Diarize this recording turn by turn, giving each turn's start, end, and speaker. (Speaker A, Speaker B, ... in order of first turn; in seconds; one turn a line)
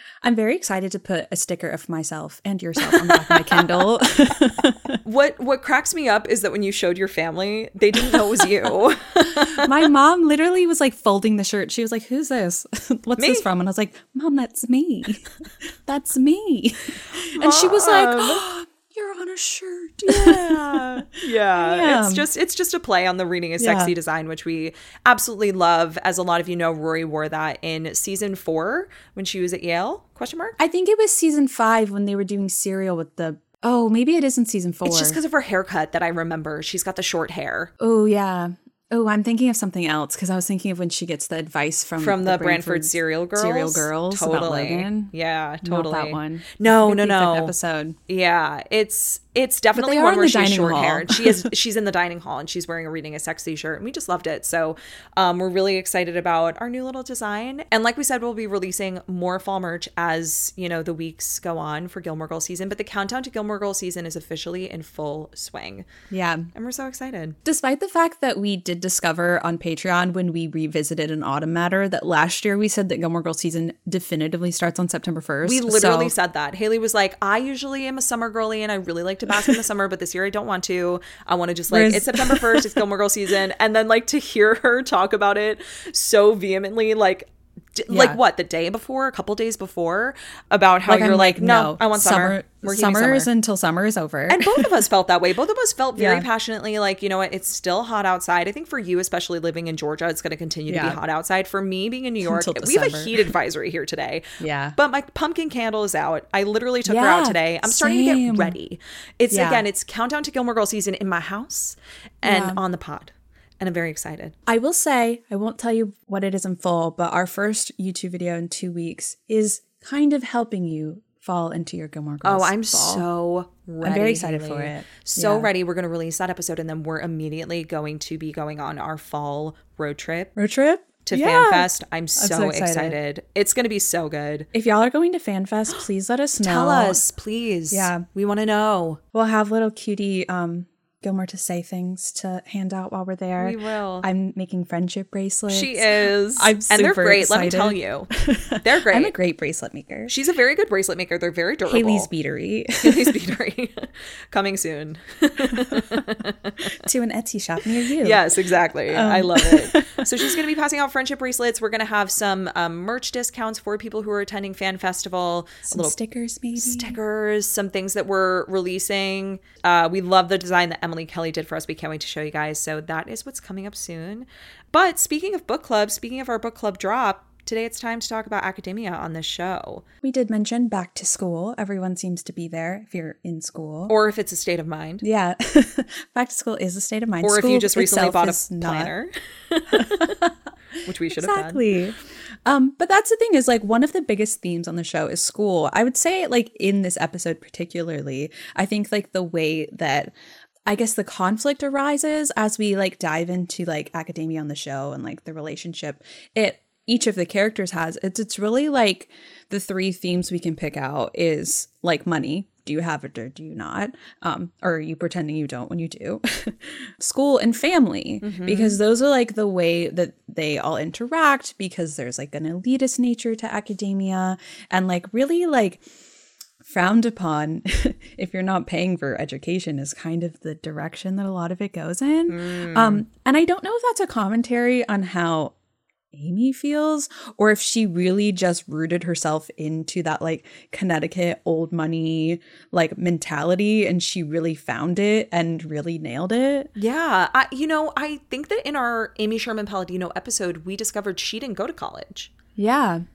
Speaker A: 0.2-5.0
Speaker B: 2.8-3.8
Speaker B: 5.0-9.7
Speaker A: 9.5-15.3
Speaker B: 13.2-13.4
Speaker A: 15.8-22.3
Speaker B: 17.3-18.4
Speaker B: 20.1-30.6
Speaker A: 23.6-23.9
Speaker A: 30.6-35.2
Speaker B: 34.8-37.7
Speaker A: 37.8-48.0
Speaker B: 42.0-47.5
Speaker B: 48.1-65.8
Speaker A: 49.7-51.5
Speaker A: 66.1-66.5
Speaker B: 66.5-67.3
Speaker A: 67.4-76.1
Speaker B: 75.4-93.3
Speaker A: 81.7-82.8
Speaker A: 87.9-88.2
Speaker A: 90.9-94.7
Speaker B: 94.3-114.3
Speaker A: 96.0-96.2
Speaker A: 100.7-101.0
Speaker A: 102.2-103.3
Speaker A: 104.4-104.8
Speaker A: 106.8-108.5
Speaker A: 109.3-109.6
Speaker A: 112.2-112.6
Speaker A: 114.5-123.0
Speaker B: 122.2-130.3
Speaker A: 123.8-125.5
Speaker A: 130.3-132.9
Speaker B: 131.0-134.5
Speaker A: 134.5-137.0
Speaker B: 136.4-139.0
Speaker A: 137.7-138.0
Speaker A: 139.1-150.1
Speaker B: 143.4-144.1
Speaker B: 145.5-148.1
Speaker B: 148.6-149.1
Speaker B: 150.1-152.1
Speaker A: 151.7-153.1
Speaker B: 152.8-156.8
Speaker A: 156.8-158.2
Speaker B: 158.0-165.9
Speaker A: 158.9-160.3
Speaker A: 165.7-167.0
Speaker B: 166.6-179.8
Speaker A: 180.0-183.9
Speaker B: 183.9-185.0
Speaker A: 185.0-188.9
Speaker B: 187.2-190.2
Speaker A: 189.7-190.3
Speaker B: 190.8-191.6
Speaker A: 191.1-200.1
Speaker A: 200.7-225.8
Speaker B: 218.2-218.8
Speaker A: 226.6-235.5
Speaker B: 232.3-233.0
Speaker A: 236.1-246.7
Speaker B: 246.8-252.3
Speaker A: 252.6-253.0